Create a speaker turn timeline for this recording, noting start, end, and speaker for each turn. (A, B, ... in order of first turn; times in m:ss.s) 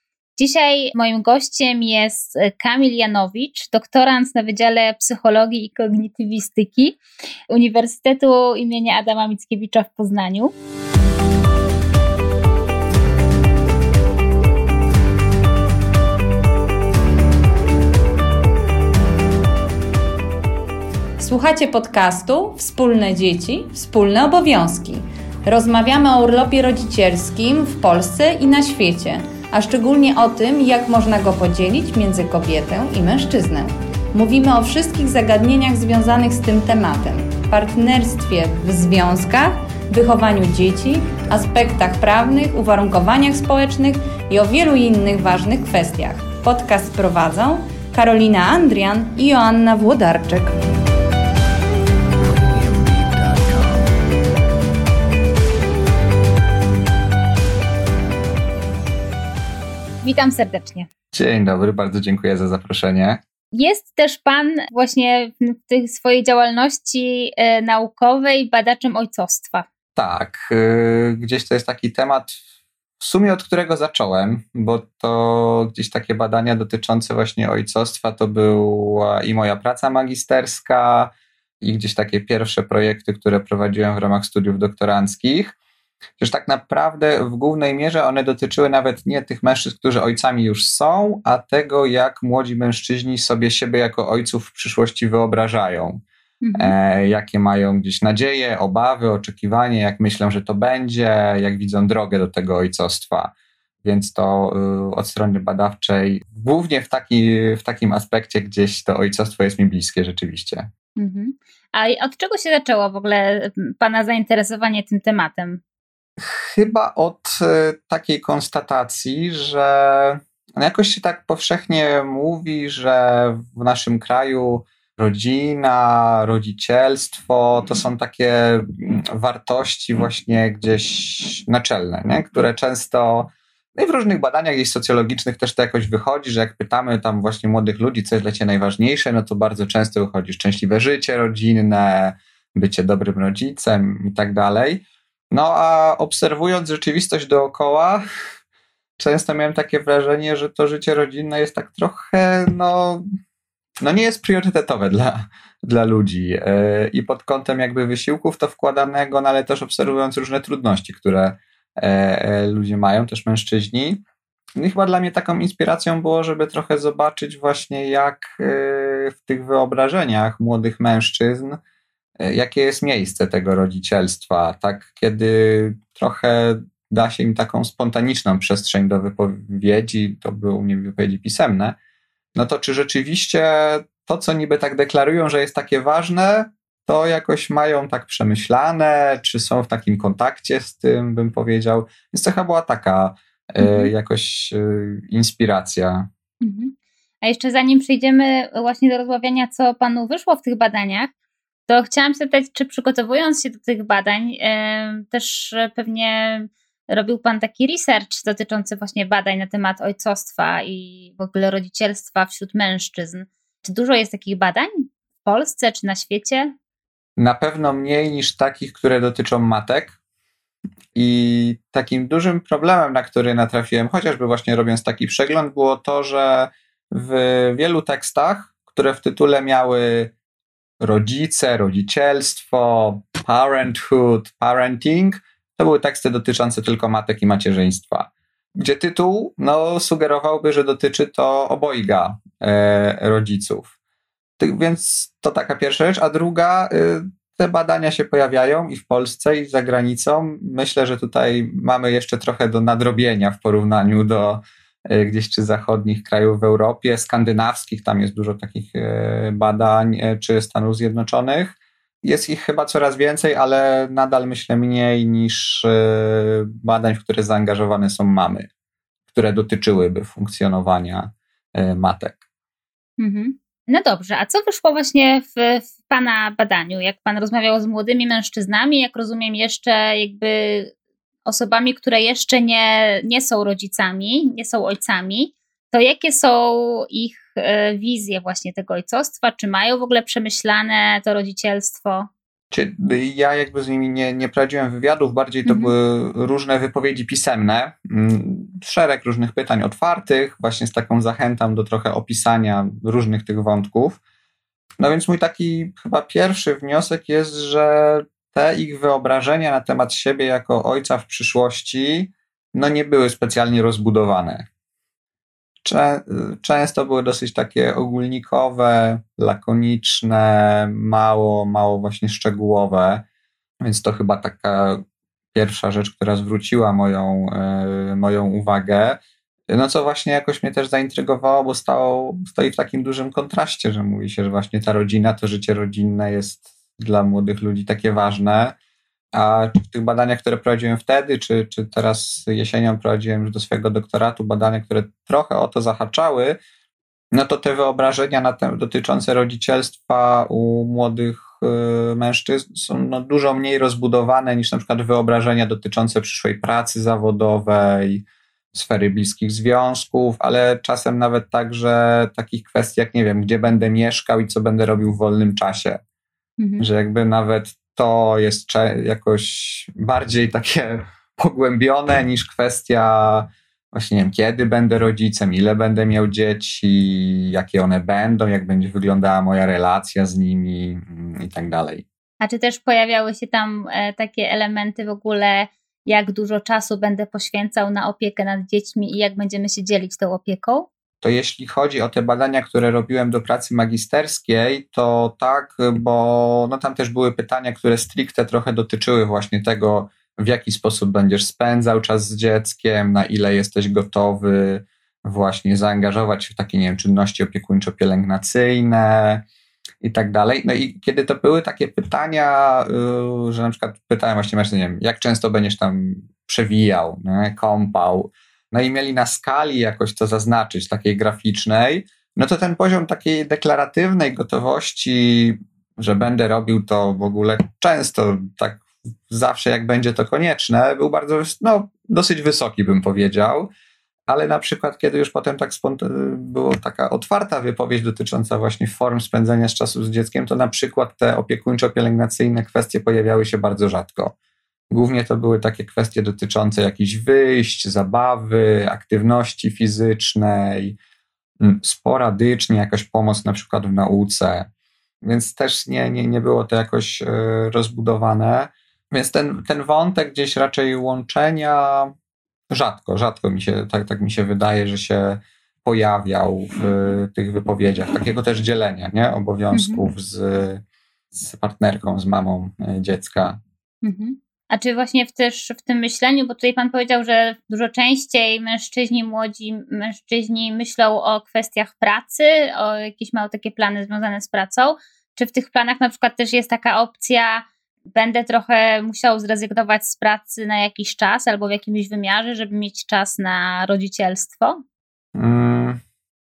0:00.4-0:07.0 A
0:07.5-0:10.5 A
0:21.2-0:50.6 B
1:00.0-1:00.9 A
1:01.1-1:03.2 C
1:03.5-1:09.7 A
1:10.0-1:12.4 C
1:13.0-1:25.6 C
1:26.2-1:36.0 C
1:36.4-1:36.8 A
1:36.6-1:43.3 C
1:43.8-1:50.7 C
1:51.0-1:55.6 A
1:56.2-2:28.0 C
2:29.0-2:33.0 C
2:33.8-2:44.0 C
2:44.6-2:51.6 C
2:52.2-3:01.8 C
3:02.4-3:16.1 C
3:13.6-3:13.9 A
3:16.4-3:21.1 A
3:21.7-3:36.5 A
3:37.2-3:40.0 C
3:40.9-3:50.1 C
3:50.8-4:03.7 C
4:04.4-4:28.5 C
4:29.1-4:32.2 C
4:33.0-4:40.7 A
4:41.3-4:52.1 A
4:52.5-5:04.0 C
4:55.4-4:55.7 A
5:04.8-5:14.5 C
5:15.6-5:23.0 C
5:23.6-5:24.8 C
5:25.3-5:38.6 C
5:39.1-5:46.4 C
5:47.1-6:05.8 C
6:06.4-6:06.7 A
6:06.6-6:21.8 C
6:22.2-6:30.7 A
6:31.0-6:49.2 C
6:49.8-7:13.5 C
7:14.1-7:24.1 C
7:24.7-7:30.8 C
7:31.4-7:34.5 C
7:35.0-7:41.9 C
7:42.5-7:53.4 C
7:49.5-7:49.9 A
7:53.8-8:14.6 A
8:15.2-8:15.8 C